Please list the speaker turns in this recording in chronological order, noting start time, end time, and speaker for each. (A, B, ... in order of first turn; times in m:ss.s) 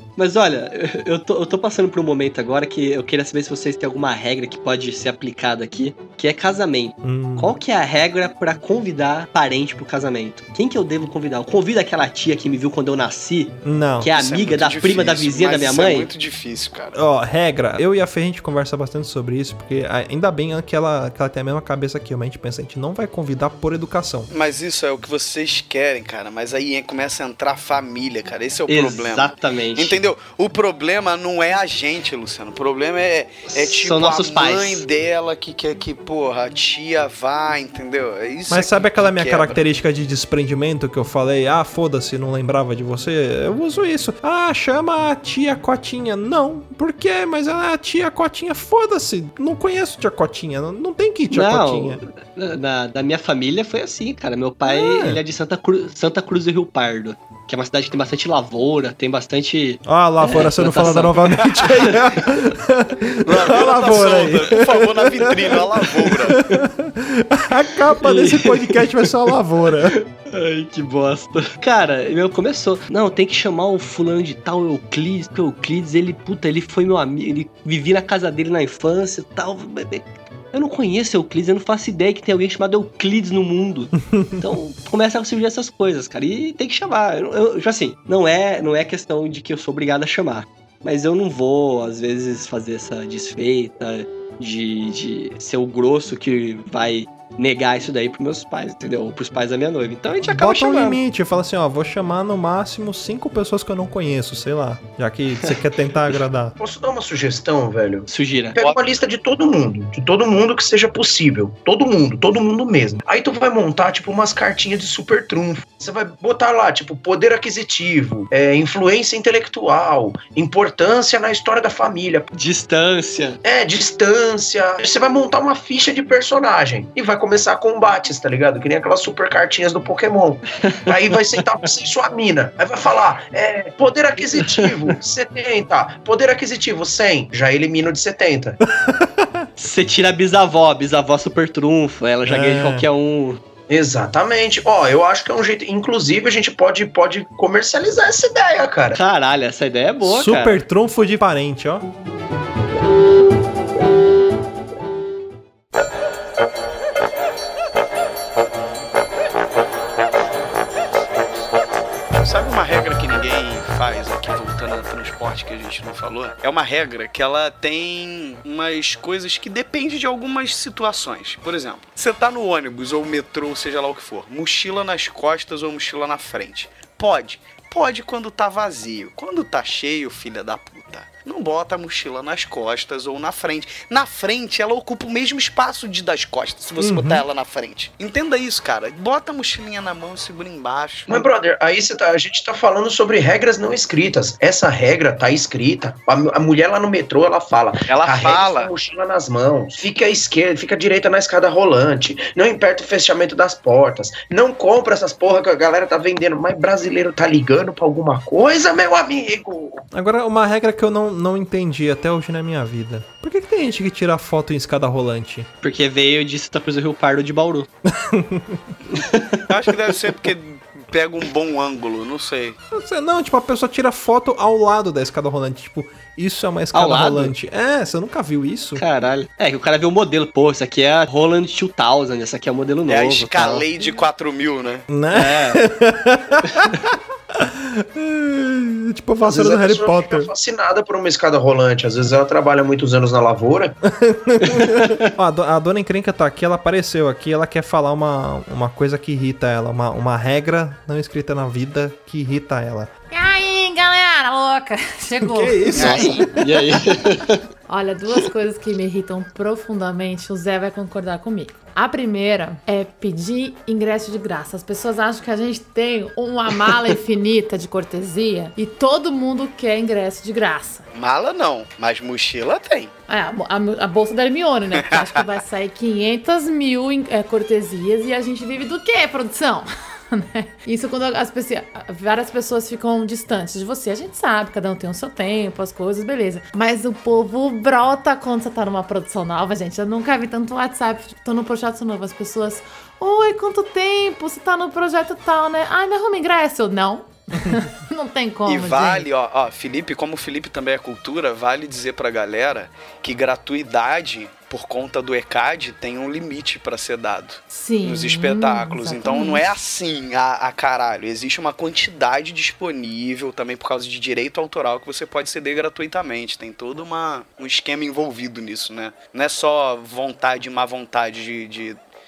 0:00.2-0:16.1 A
0:07.0-0:07.6 B
0:13.6-0:14.1 B
0:14.2-0:17.0 C
0:17.0-0:24.3 B
0:24.3-0:39.6 C
0:28.7-0:30.0 A
0:33.5-0:34.8 A
0:38.5-0:52.0 B
0:51.3-1:02.4 A
0:54.7-0:55.2 B
0:59.8-1:10.0 B
1:03.2-1:06.4 C
1:06.3-1:06.6 A
1:08.0-1:09.4 A
1:09.9-1:41.0 A
1:40.2-1:46.6 B
1:46.6-2:02.3 D
1:48.1-1:48.6 A
2:02.4-2:03.4 A
2:03.4-2:18.6 D
2:18.8-2:19.4 B
2:19.6-2:23.4 A
2:22.3-2:22.9 B
2:23.7-2:29.0 D
2:29.0-2:30.6 A
2:30.0-2:31.9 B
2:42.2-3:11.3 C
3:06.8-3:07.2 B
3:11.1-3:29.8 D
3:17.9-3:18.7 C
3:29.9-3:35.5 B
3:35.6-3:37.7 A
3:37.9-3:38.6 B
3:38.9-3:39.4 A
3:39.5-3:42.6 C
3:42.7-3:48.8 B
3:46.7-3:47.3 A
3:48.8-3:53.6 A
3:52.9-3:54.9 C
3:54.9-4:00.3 B
3:55.1-3:55.6 A
3:59.2-4:03.8 D
4:03.9-4:12.9 B
4:04.4-4:05.1 A
4:13.1-4:16.4 E
4:15.2-4:16.4 B
4:15.8-4:16.2 C
4:16.4-4:17.4 A
4:17.7-4:30.8 E
4:30.9-4:32.9 C
4:33.1-4:59.1 E
4:34.7-4:35.2 C
4:58.5-5:21.8 C
5:07.5-5:09.5 E